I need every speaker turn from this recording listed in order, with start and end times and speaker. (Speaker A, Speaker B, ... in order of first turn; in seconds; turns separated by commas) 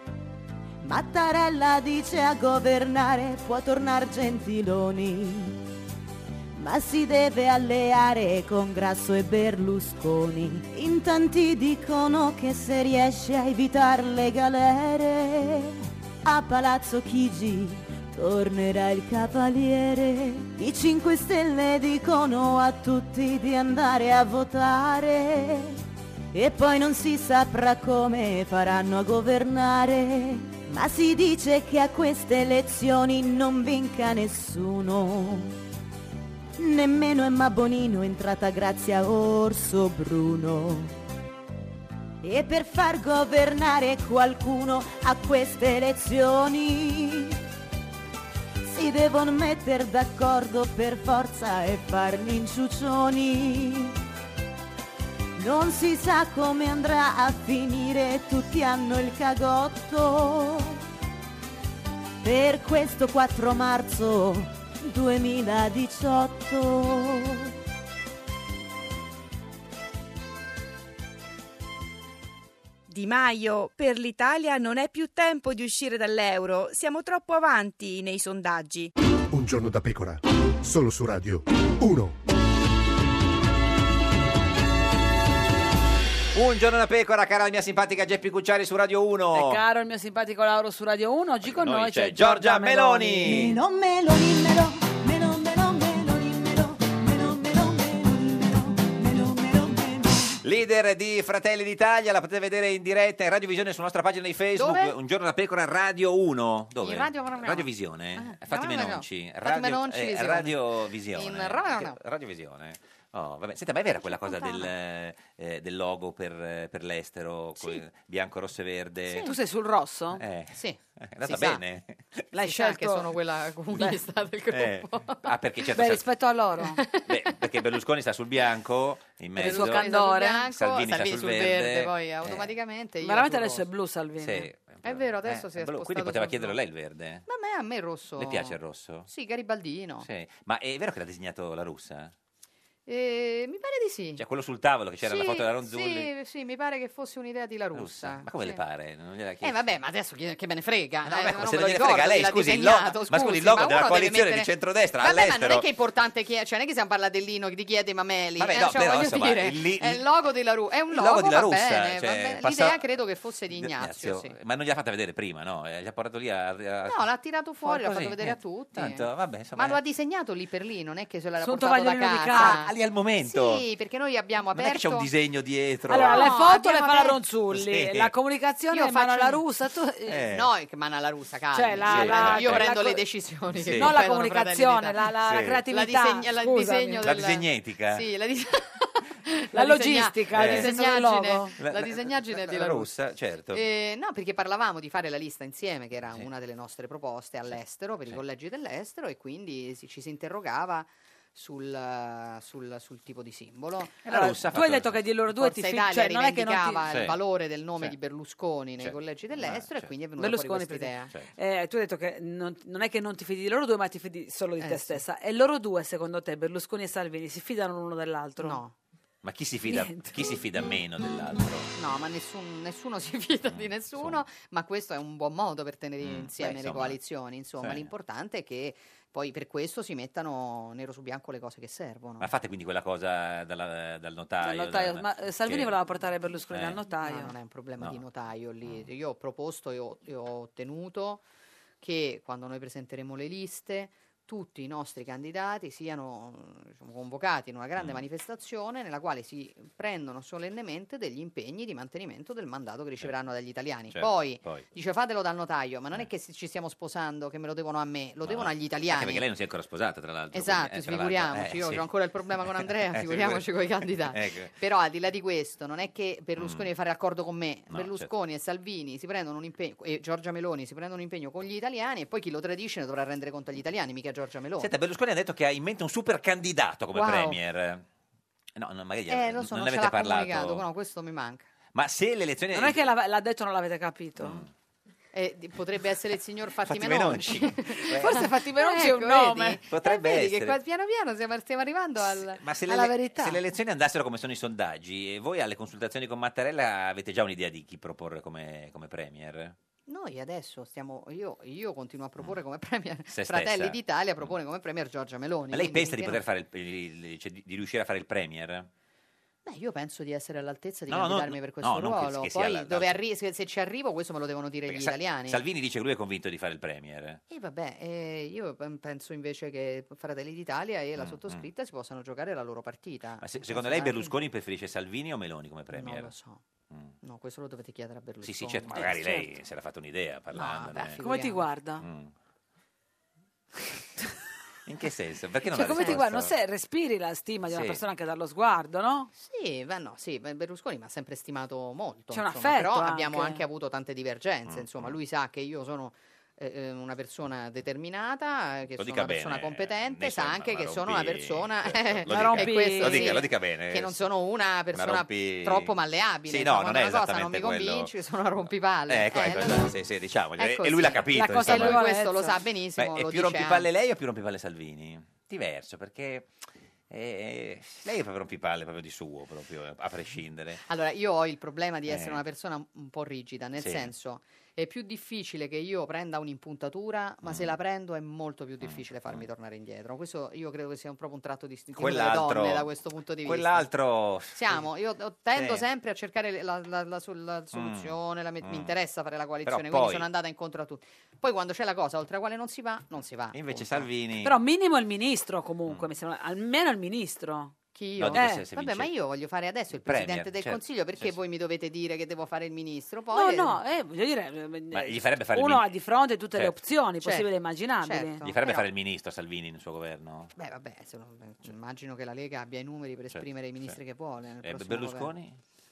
Speaker A: 0.8-5.6, Speaker A: 6.5-25.8, Speaker A: 26.3-35.6, Speaker A: 36.6-40.9, Speaker A: 42.2-47.4, Speaker A: 48.7-54.0, Speaker A: 55.4-60.8, Speaker A: 62.2-67.5, Speaker B: 72.9-78.9, Speaker C: 79.3-82.2, Speaker D: 86.3-89.6, Speaker E: 89.3-93.4, Speaker D: 91.5-93.6, Speaker A: 93.3-100.1, Speaker D: 100.4-119.3, Speaker F: 104.5-105.0, Speaker F: 106.8-110.6, Speaker F: 111.1-112.0, Speaker F: 114.1-114.7, Speaker F: 119.1-119.3, Speaker E: 119.2-120.2, Speaker D: 120.2-122.2, Speaker F: 120.5-121.6, Speaker E: 122.3-123.1, Speaker F: 122.4-125.3, Speaker E: 123.7-124.0, Speaker D: 124.5-126.0, Speaker E: 125.7-126.8, Speaker F: 126.8-127.3, Speaker D: 127.1-129.9, Speaker F: 129.4-133.7, Speaker E: 129.4-130.5, Speaker D: 130.5-132.5, Speaker E: 133.0-134.5, Speaker D: 134.2-137.3, Speaker F: 134.8-136.6, Speaker F: 137.3-140.1, Speaker D: 138.2-139.1, Speaker D: 140.0-142.1, Speaker F: 142.9-144.2, Speaker D: 144.2-146.1, Speaker F: 145.0-148.6, Speaker D: 147.7-149.6, Speaker F: 149.4-164.4, Speaker D: 151.1-155.7, Speaker D: 158.4-160.1, Speaker D: 160.9-162.8, Speaker D: 163.5-167.0, Speaker F: 166.8-172.7, Speaker D: 167.6-169.8, Speaker E: 171.4-172.6, Speaker D: 172.3-173.6, Speaker F: 173.2-175.1, Speaker D: 174.5-176.3, Speaker F: 175.9-177.2, Speaker E: 175.9-180.2, Speaker D: 177.5-178.1, Speaker F: 178.7-179.4, Speaker D: 180.1-180.5, Speaker F: 180.2-185.1, Speaker E: 181.5-183.0, Speaker D: 181.9-182.7, Speaker D: 183.5-183.9, Speaker E: 183.7-187.1, Speaker D: 185.2-185.6, Speaker F: 185.7-192.9, Speaker D: 187.0-188.1, Speaker E: 189.5-191.6, Speaker D: 190.4-190.7, Speaker D: 191.6-193.6, Speaker F: 193.5-204.4, Speaker D: 204.0-205.0, Speaker E: 204.1-206.8, Speaker F: 205.3-211.1, Speaker D: 206.9-207.2, Speaker D: 208.8-209.9, Speaker E: 210.2-218.6, Speaker F: 214.6-215.0, Speaker F: 218.4-218.8, Speaker D: 219.2-221.7, Speaker E: 219.7-220.2, Speaker F: 221.8-232.3, Speaker D: 223.5-224.2, Speaker D: 226.0-227.0, Speaker D: 227.6-227.9, Speaker D: 232.2-235.8, Speaker E: 234.4-237.3, Speaker D: 236.5-236.8, Speaker F: 237.0-241.2, Speaker F: 241.8-259.2, Speaker D: 253.9-254.7, Speaker D: 258.2-261.9, Speaker F: 260.3-274.7, Speaker D: 262.4-263.4, Speaker D: 264.1-264.5, Speaker D: 266.4-266.7, Speaker D: 267.7-268.1, Speaker D: 274.6-277.9, Speaker F: 276.9-277.4, Speaker D: 278.6-280.6, Speaker F: 279.1-281.5, Speaker D: 281.7-282.8, Speaker E: 282.5-284.4, Speaker D: 284.2-284.5, Speaker F: 285.1-293.4, Speaker D: 286.6-288.3, Speaker E: 287.8-289.6, Speaker D: 289.7-290.6, Speaker D: 292.2-299.6, Speaker F: 299.9-306.2, Speaker D: 303.1-304.3, Speaker D: 305.5-308.7, Speaker F: 309.4-315.4, Speaker D: 310.9-313.0, Speaker D: 314.7-317.2, Speaker F: 317.3-324.1, Speaker D: 321.0-321.4, Speaker D: 323.2-326.1, Speaker F: 325.7-326.4, Speaker F: 327.0-329.0, Speaker D: 328.2-331.0, Speaker E: 328.7-329.3, Speaker F: 330.3-331.5, Speaker E: 331.0-331.9, Speaker D: 331.8-332.1, Speaker D: 334.7-336.3, Speaker E: 335.5-339.1, Speaker D: 337.5-337.8, Speaker F: 339.2-359.7, Speaker E: 342.1-343.4, Speaker D: 344.5-344.9, Speaker D: 348.8-354.0, Speaker E: 352.1-353.2, Speaker D: 354.7-355.8, Speaker D: 356.3-357.9, Speaker D: 358.9-361.9, Speaker F: 360.4-363.7, Speaker E: 361.1-362.4, Speaker D: 362.8-366.3, Speaker D: 366.9-370.6, Speaker F: 370.6-383.7, Speaker D: 371.9-372.2, Speaker D: 373.6-373.9, Speaker D: 377.2-377.5, Speaker D: 378.6-379.3, Speaker D: 381.8-382.7, Speaker D: 383.2-384.7, Speaker F: 384.3-393.9, Speaker D: 385.4-385.6, Speaker D: 387.5-388.7, Speaker D: 389.4-390.1, Speaker D: 393.3-394.4, Speaker E: 394.2-397.6, Speaker F: 397.7-403.6, Speaker D: 398.0-398.9, Speaker E: 398.1-398.5, Speaker D: 399.8-401.1, Speaker E: 403.1-408.2, Speaker D: 404.7-405.7, Speaker F: 407.0-407.3, Speaker F: 407.8-408.7, Speaker D: 408.2-410.3, Speaker F: 410.4-415.1, Speaker D: 413.1-413.8, Speaker D: 414.4-415.4